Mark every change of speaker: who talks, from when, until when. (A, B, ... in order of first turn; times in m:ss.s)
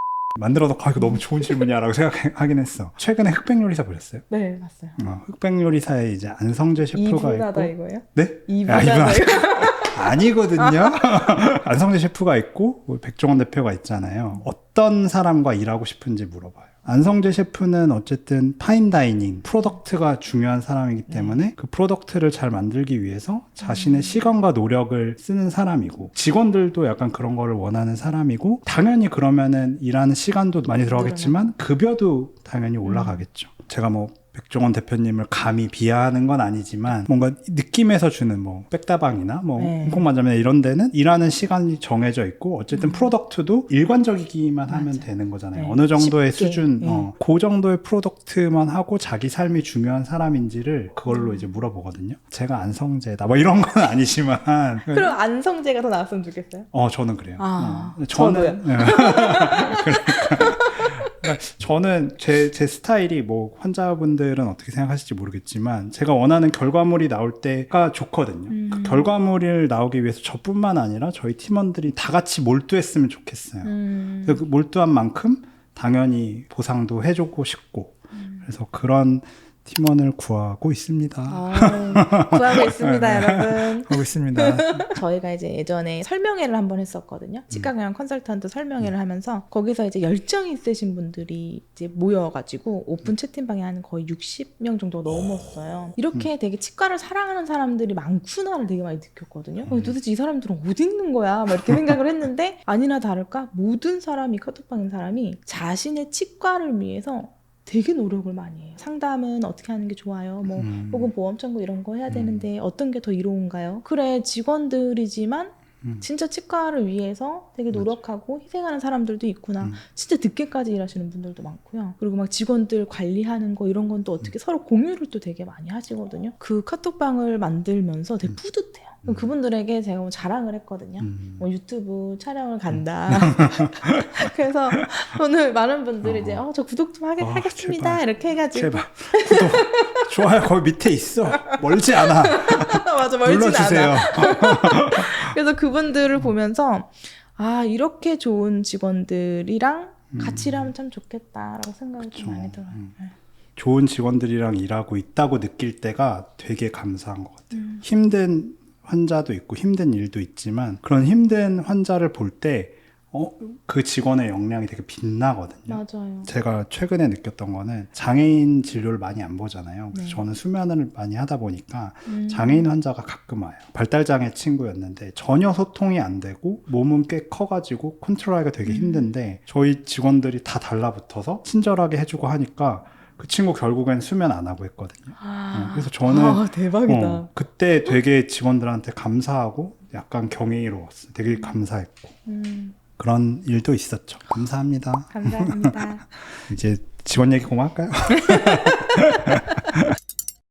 0:00.4-0:04.3 A
0:04.3-0:05.0 B
0:05.0-0:55.1 A
0:06.9-0:11.2 B
0:21.1-0:21.4 B
0:23.6-0:24.2 B
0:30.7-0:31.4 B
0:32.8-0:33.2 B
0:39.6-0:40.1 B
0:42.7-0:43.1 B
0:44.7-0:47.1 B
0:51.1-0:51.5 B
0:54.8-0:56.7 B
0:56.7-1:25.0 A
0:57.4-1:01.3 B
1:08.5-1:09.1 B
1:13.6-1:14.4 B
1:18.1-1:18.5 B
1:21.3-2:20.1 B
1:39.6-1:40.0 A
1:50.5-1:51.1 A
1:52.1-1:52.5 A
1:57.7-1:58.0 A
2:11.0-2:11.4 A
2:12.7-2:14.2 A
2:16.0-2:16.4 A
2:17.2-2:25.4 A
2:21.3-2:33.2 B
2:30.1-2:30.7 A
2:32.0-2:33.0 A
2:33.6-3:12.2 A
2:37.5-2:37.8 B
2:45.7-2:46.3 B
2:49.9-2:50.2 B
2:52.1-2:52.7 B
2:58.7-2:59.1 B
3:05.2-3:07.3 B
3:12.3-3:12.8 B
3:13.0-3:19.8 A
3:15.1-3:16.1 B
3:18.2-3:18.9 B